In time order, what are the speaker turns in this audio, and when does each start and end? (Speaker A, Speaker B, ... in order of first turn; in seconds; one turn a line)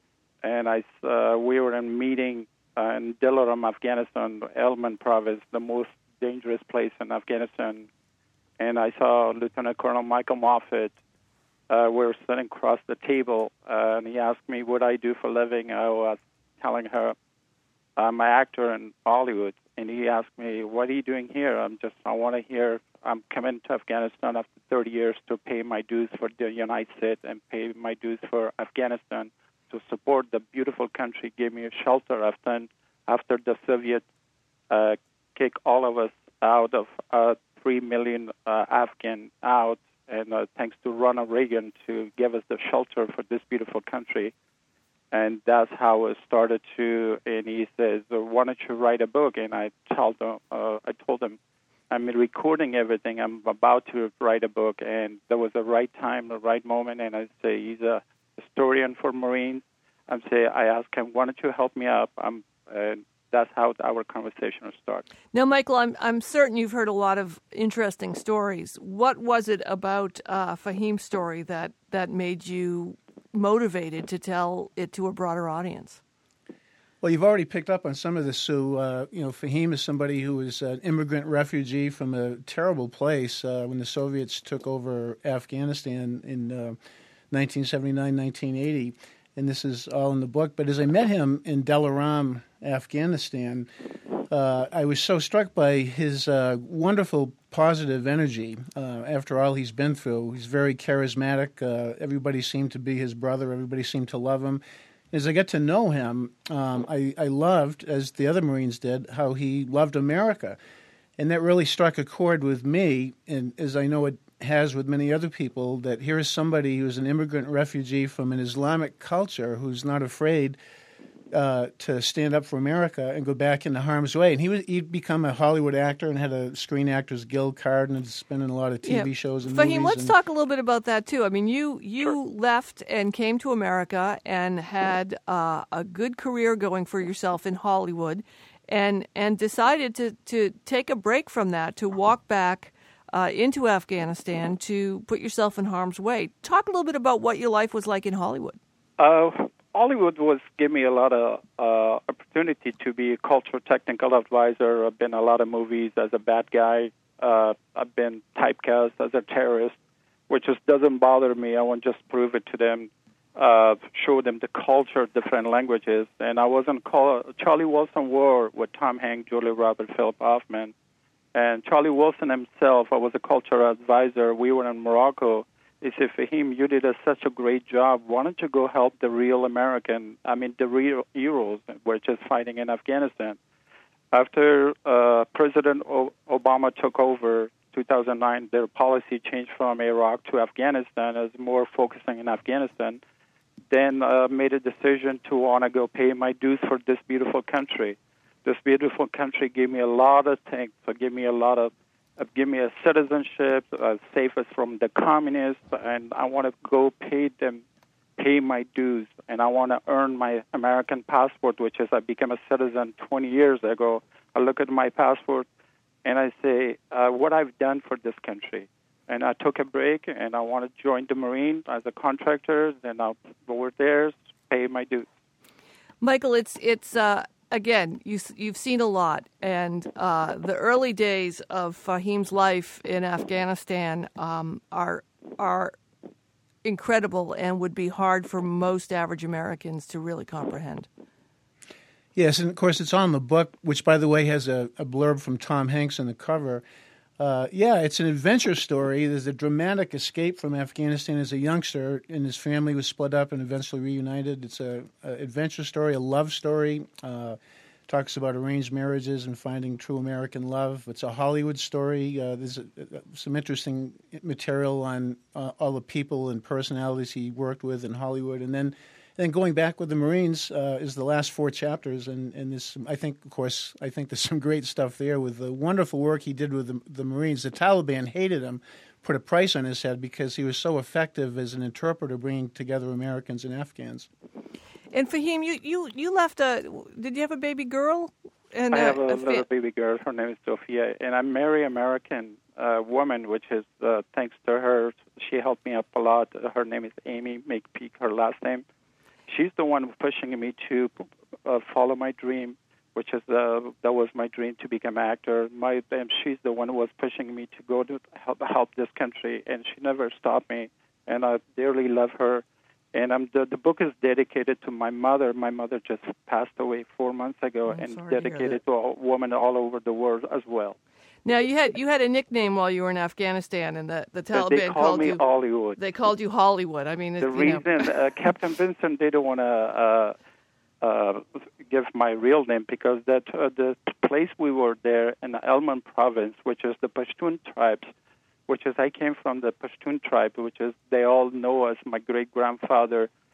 Speaker A: 0.4-7.9
Speaker A: 8.6-10.9
Speaker A: 11.7-17.1
Speaker A: 18.0-34.0
Speaker A: 34.7-44.3
Speaker A: 45.1-51.4
Speaker A: 51.9-65.0
Speaker B: 65.3-76.0
Speaker C: 77.0-86.8
Speaker C: 87.3-93.7
Speaker C: 94.3-110.6
Speaker C: 111.2-120.6
Speaker C: 121.3-130.2
Speaker B: 128.8-148.6
Speaker A: 149.0-159.8
Speaker A: 160.3-170.7
Speaker A: 171.3-183.4
Speaker A: 184.1-193.0
Speaker A: 193.7-207.6
Speaker A: 208.2-215.5
Speaker A: 216.1-225.1
Speaker B: 226.0-235.8
Speaker B: 236.6-240.9
Speaker C: 242.2-246.6
Speaker C: 247.2-284.1
Speaker B: 284.9-289.4
Speaker A: 288.7-298.6
Speaker A: 299.3-320.8
Speaker B: 317.7-318.6
Speaker B: 321.2-325.2
Speaker A: 324.3-325.8
Speaker B: 325.8-327.9
Speaker A: 327.2-330.1
Speaker A: 330.8-337.9
Speaker A: 338.5-343.1